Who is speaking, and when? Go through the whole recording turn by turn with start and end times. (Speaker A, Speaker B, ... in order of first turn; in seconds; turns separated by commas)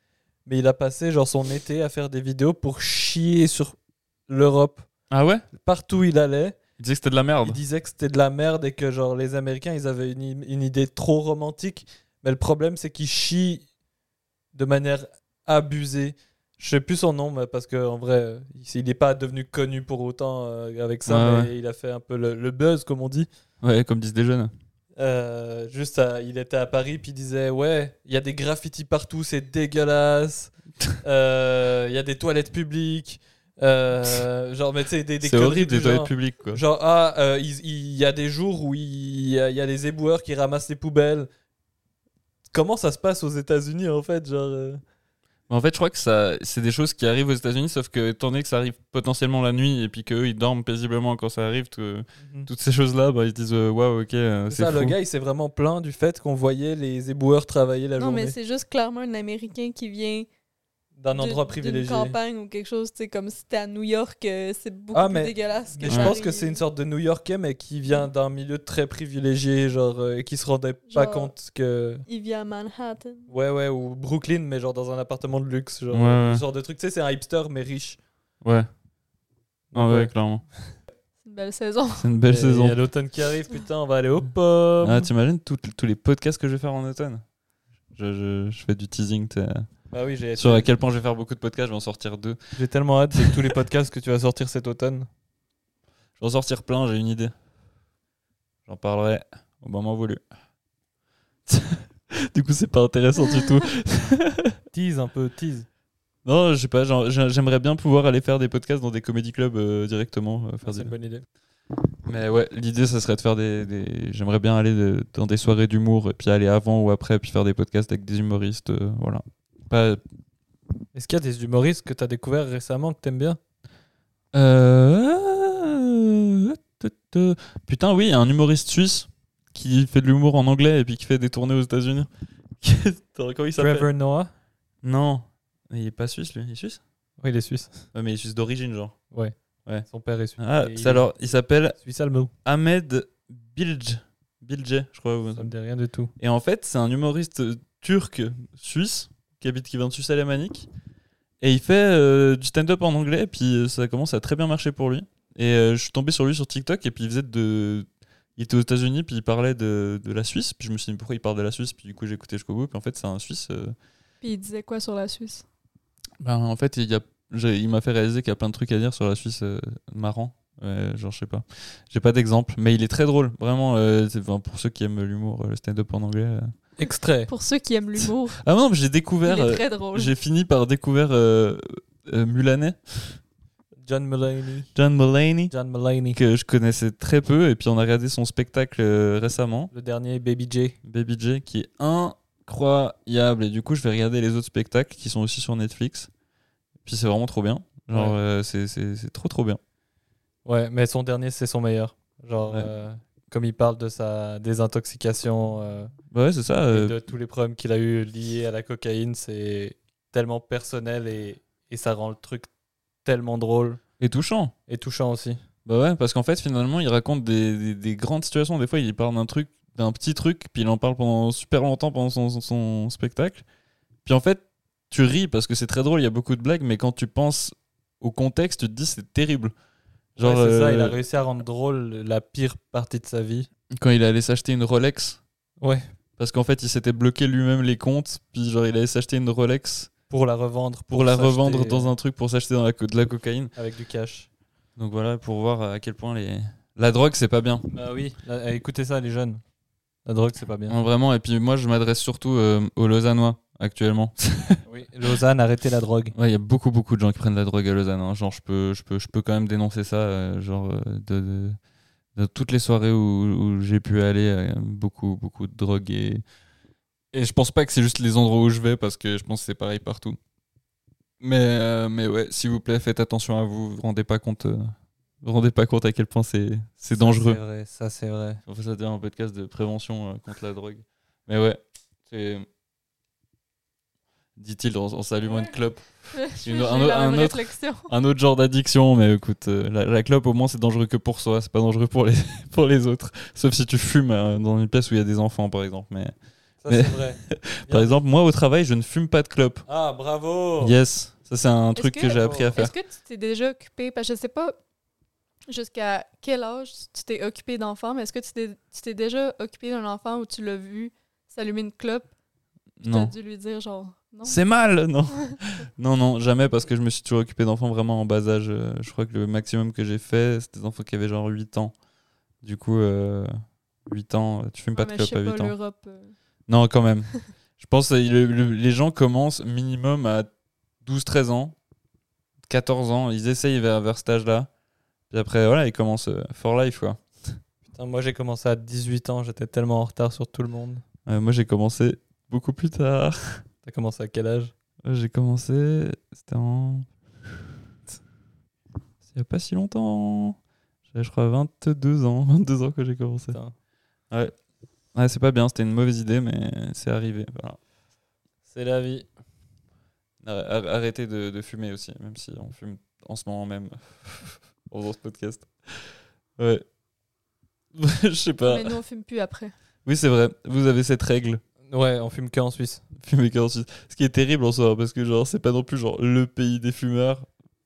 Speaker A: 0.5-4.9, Speaker B: 5.1-5.4, Speaker A: 5.5-6.6, Speaker B: 6.8-7.6, Speaker A: 7.4-13.7, Speaker A: 14.5-23.3, Speaker B: 21.1-21.5, Speaker B: 23.6-24.5, Speaker A: 25.0-41.3, Speaker B: 35.2-36.6, Speaker A: 42.5-44.8, Speaker B: 45.5-55.0, Speaker A: 52.2-52.5, Speaker A: 54.5-58.4, Speaker C: 58.0-60.3, Speaker A: 61.0-62.2, Speaker C: 61.1-66.6, Speaker A: 64.9-72.0, Speaker B: 65.9-66.2, Speaker C: 70.9-71.3, Speaker C: 72.1-73.3, Speaker A: 73.3-78.0, Speaker B: 75.9-76.4, Speaker B: 78.4-78.7, Speaker A: 79.7-80.7, Speaker B: 79.8-80.5, Speaker C: 81.2-82.1, Speaker B: 82.0-82.8, Speaker A: 82.3-85.1, Speaker B: 84.8-87.2, Speaker B: 87.9-89.7, Speaker A: 89.9-90.7, Speaker B: 90.4-92.4, Speaker A: 92.5-95.1, Speaker B: 93.2-93.6, Speaker B: 96.2-97.3, Speaker B: 98.7-100.2, Speaker B: 101.5-104.6, Speaker A: 104.7-105.7, Speaker B: 106.2-110.9, Speaker A: 110.6-111.2, Speaker B: 112.1-120.0, Speaker A: 120.9-123.4, Speaker B: 124.3-132.1, Speaker B: 132.6-133.9, Speaker A: 133.6-134.3, Speaker B: 134.8-136.8, Speaker A: 137.2-137.8, Speaker B: 137.9-139.0, Speaker A: 139.9-141.2, Speaker B: 140.4-141.8, Speaker A: 141.8-142.3, Speaker B: 142.4-145.5, Speaker A: 145.3-146.1, Speaker B: 146.2-150.7, Speaker B: 151.4-163.8, Speaker C: 164.2-165.4, Speaker B: 166.2-176.5, Speaker A: 176.8-177.3, Speaker C: 177.3-178.4, Speaker B: 178.0-183.2, Speaker C: 179.2-180.1, Speaker A: 183.8-184.7, Speaker B: 184.7-185.5, Speaker A: 185.5-186.2, Speaker B: 186.1-189.7, Speaker A: 189.7-190.8, Speaker B: 190.8-196.1, Speaker B: 196.8-199.6, Speaker A: 197.9-198.2, Speaker A: 200.4-205.9, Speaker B: 206.1-207.0, Speaker A: 206.7-212.5, Speaker A: 213.1-213.8, Speaker B: 214.0-214.5, Speaker A: 214.7-215.4, Speaker B: 215.7-223.4, Speaker B: 224.1-229.5, Speaker B: 230.2-231.0, Speaker A: 230.2-233.5, Speaker B: 233.7-235.2, Speaker B: 236.2-239.9, Speaker A: 240.1-241.9, Speaker B: 240.9-243.5, Speaker A: 243.6-244.3, Speaker B: 244.8-247.7, Speaker A: 247.7-249.4, Speaker A: 250.1-250.8, Speaker B: 250.7-254.6, Speaker A: 254.7-256.1, Speaker B: 256.1-261.6, Speaker B: 262.2-266.2, Speaker B: 267.1-270.2, Speaker B: 271.2-277.4, Speaker A: 276.9-278.4, Speaker B: 278.5-282.5, Speaker B: 284.4-296.1, Speaker C: 285.3-285.5, Speaker C: 286.1-287.9, Speaker A: 296.6-298.0, Speaker B: 296.7-299.6, Speaker A: 299.7-300.8, Speaker B: 300.6-302.7, Speaker C: 301.8-304.6, Speaker A: 302.2-302.5, Speaker C: 305.5-312.1, Speaker B: 312.8-313.1, Speaker C: 312.9-314.4, Speaker B: 314.2-321.8, Speaker B: 322.4-323.3, Speaker B: 323.9-325.5, Speaker C: 324.7-326.1, Speaker B: 326.5-330.3, Speaker B: 330.8-331.6, Speaker B: 332.5-334.5, Speaker B: 335.1-337.4, Speaker A: 337.7-340.8, Speaker B: 341.1-343.4, Speaker A: 343.6-344.5, Speaker B: 344.8-346.9, Speaker B: 349.1-350.4, Speaker B: 350.9-353.4, Speaker B: 354.9-357.6, Speaker A: 358.5-359.1, Speaker B: 360.2-366.6, Speaker B: 367.8-368.8, Speaker C: 368.5-369.5, Speaker B: 369.9-371.4, Speaker A: 371.7-372.8, Speaker B: 372.9-377.3